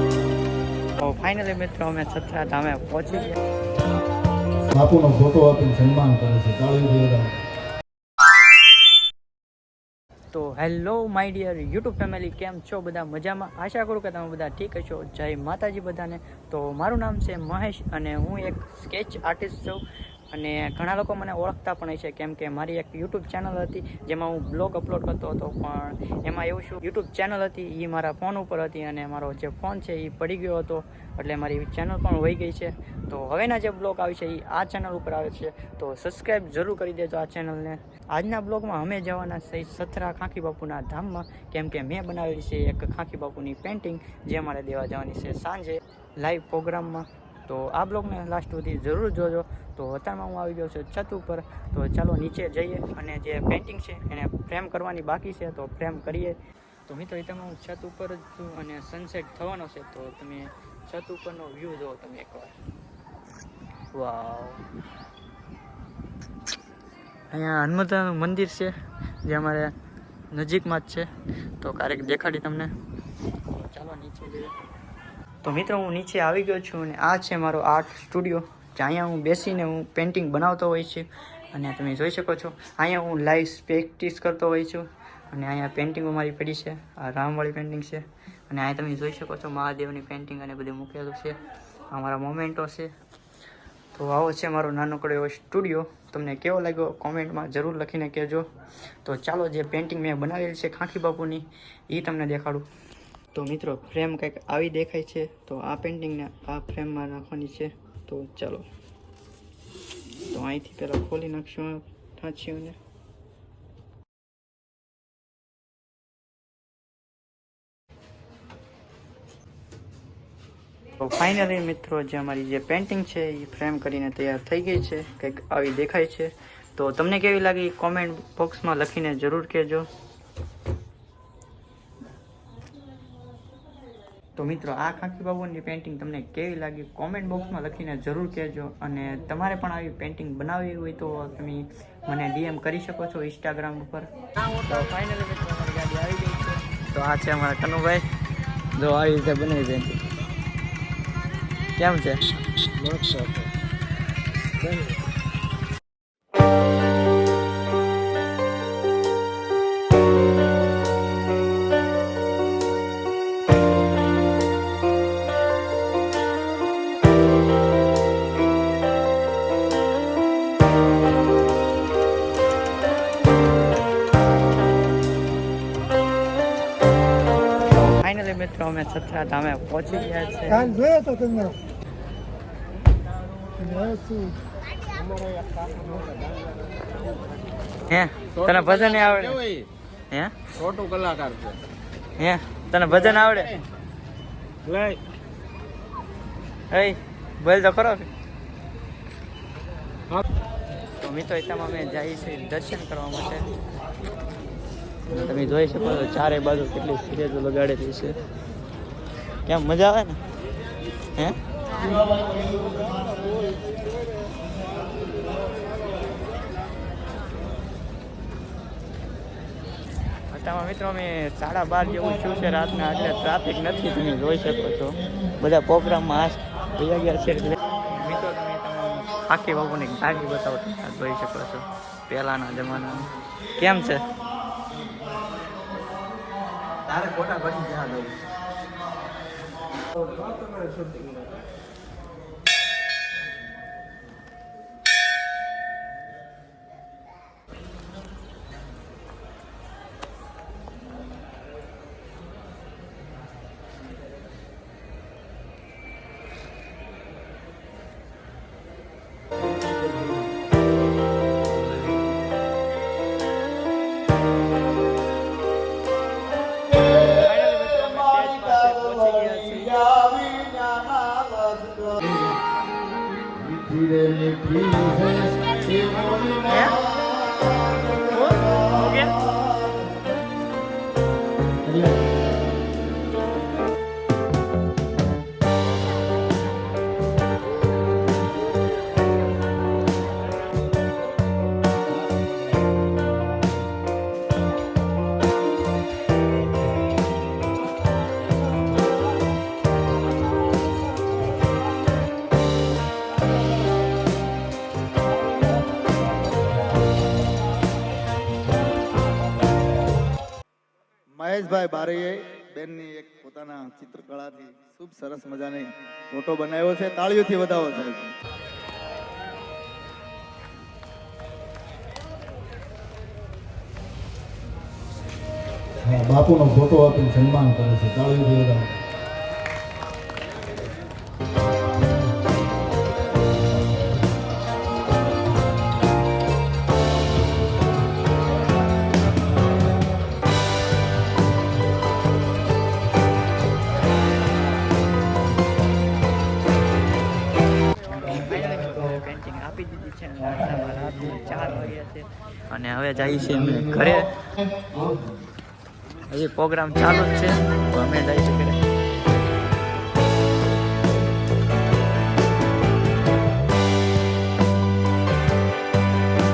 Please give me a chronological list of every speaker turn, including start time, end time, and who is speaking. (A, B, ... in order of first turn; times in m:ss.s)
0:01.0-0:03.4 A
0:04.7-0:07.4 B
0:10.3-1:02.6 A
1:03.9-1:04.6 A
1:07.3-1:09.7 A
1:10.3-1:12.7 A
1:13.5-1:14.5 A
1:15.4-1:32.9 A
1:33.9-1:38.5 A
1:39.0-1:42.7 A
1:43.3-1:48.7 A
1:50.3-1:52.8 A
2:01.0-2:09.9 A
2:14.4-2:28.1 A
2:28.7-2:30.0 A
2:31.8-2:33.0 A
2:32.8-2:33.5 C
2:57.7-3:01.3 A
3:03.7-3:04.2 C
3:05.0-3:06.4 C
3:07.9-3:10.7 A
3:10.7-3:11.6 C
3:12.2-3:13.6 A
3:14.6-3:15.0 C
3:16.7-3:18.1 A
3:21.0-3:23.5 A
3:25.1-3:28.2 A
3:29.5-3:30.2 A
3:40.3-3:54.1 A
3:57.0-3:58.1 A
3:57.0-3:58.1 C
4:00.2-4:00.9 C
4:26.9-4:30.6 A
4:31.3-4:31.7 C
4:33.3-4:36.4 B
4:36.4-4:36.9 A
4:38.0-4:39.3 A
5:11.1-5:18.2 B
5:25.8-5:28.8 B
5:47.9-5:54.2 A
5:56.1-5:58.6 A